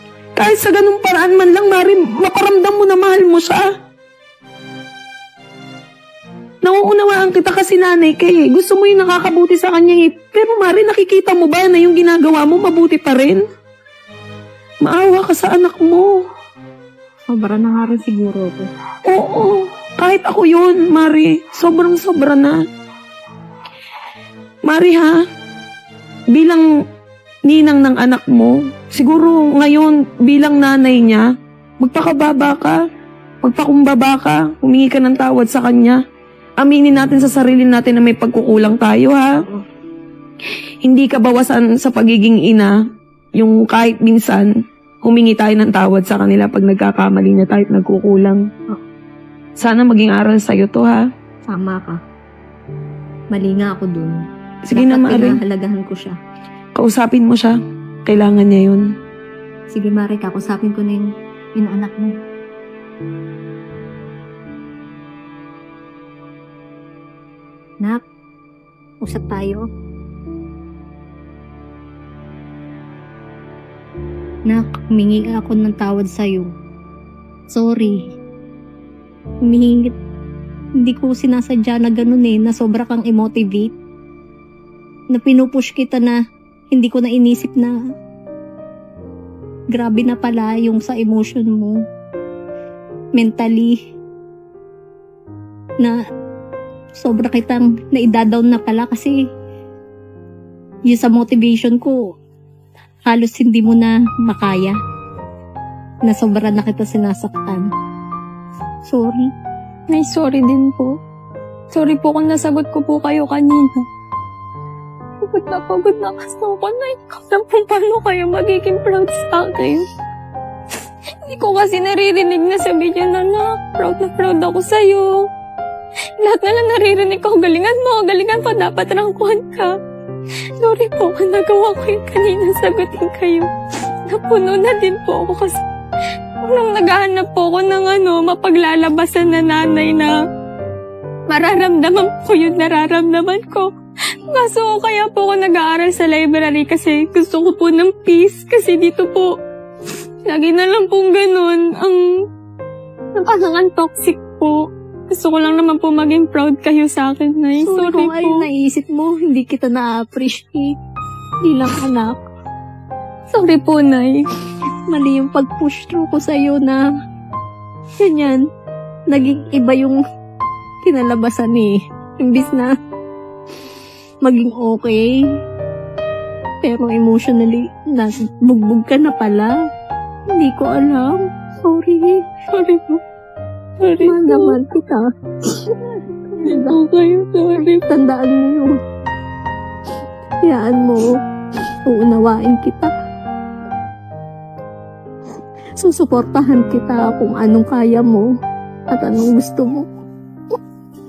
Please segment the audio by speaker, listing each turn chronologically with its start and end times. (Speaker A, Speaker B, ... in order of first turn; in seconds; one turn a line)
Speaker A: 0.4-3.6
Speaker A: 6.6-13.4
Speaker A: 14.8-16.1
Speaker B: 17.3-18.7
Speaker A: 19.1-22.6
Speaker A: 24.7-25.2
Speaker A: 26.3-26.6
Speaker A: 27.5-31.2
Speaker A: 31.8-32.8
Speaker A: 33.4-36.0
Speaker A: 36.6-39.3
Speaker A: 40.8-42.7
Speaker A: 43.4-44.5
Speaker A: 45.0-48.4
Speaker A: 49.6-51.0
Speaker B: 51.5-52.0
Speaker B: 53.3-56.2
Speaker A: 54.7-55.4
Speaker A: 56.8-58.9
Speaker B: 59.7-62.2
Speaker B: 69.0-69.7
Speaker B: 74.5-76.5
Speaker B: 77.5-78.0
Speaker B: 79.5-80.0
Speaker B: 80.8-83.7
Speaker B: 85.1-86.2
Speaker B: 86.7-87.8
Speaker B: 89.7-91.8
Speaker B: 93.2-93.8
Speaker B: 97.0-99.2
Speaker B: 100.9-102.0
Speaker B: 103.1-104.8
Speaker B: 106.0-107.7
Speaker B: 108.9-109.3
Speaker C: 109.9-111.0
Speaker C: 111.7-113.8
Speaker C: 115.2-119.8
Speaker C: 121.2-125.2
Speaker C: 126.2-129.7
Speaker C: 130.6-133.5
Speaker C: 134.1-135.6
Speaker C: 136.4-140.2
Speaker C: 141.3-143.7
Speaker C: 144.3-149.3
Speaker C: 150.2-152.2
Speaker C: 153.2-158.5
Speaker B: 157.6-160.8
Speaker B: 161.4-162.2
Speaker C: 163.3-164.3
Speaker B: 164.9-166.8
Speaker B: 168.0-168.5
Speaker B: 169.1-170.0
Speaker B: 170.8-172.8
Speaker B: 174.2-175.3
Speaker B: 176.6-179.6
Speaker B: 180.3-182.2
Speaker C: 182.5-183.0
Speaker C: 183.8-184.6
Speaker B: 184.0-185.1
Speaker B: 186.3-186.8
Speaker C: 186.4-187.8
Speaker B: 187.8-188.7
Speaker B: 190.4-191.2
Speaker B: 191.9-192.9
Speaker B: 195.8-198.3
Speaker B: 198.9-199.9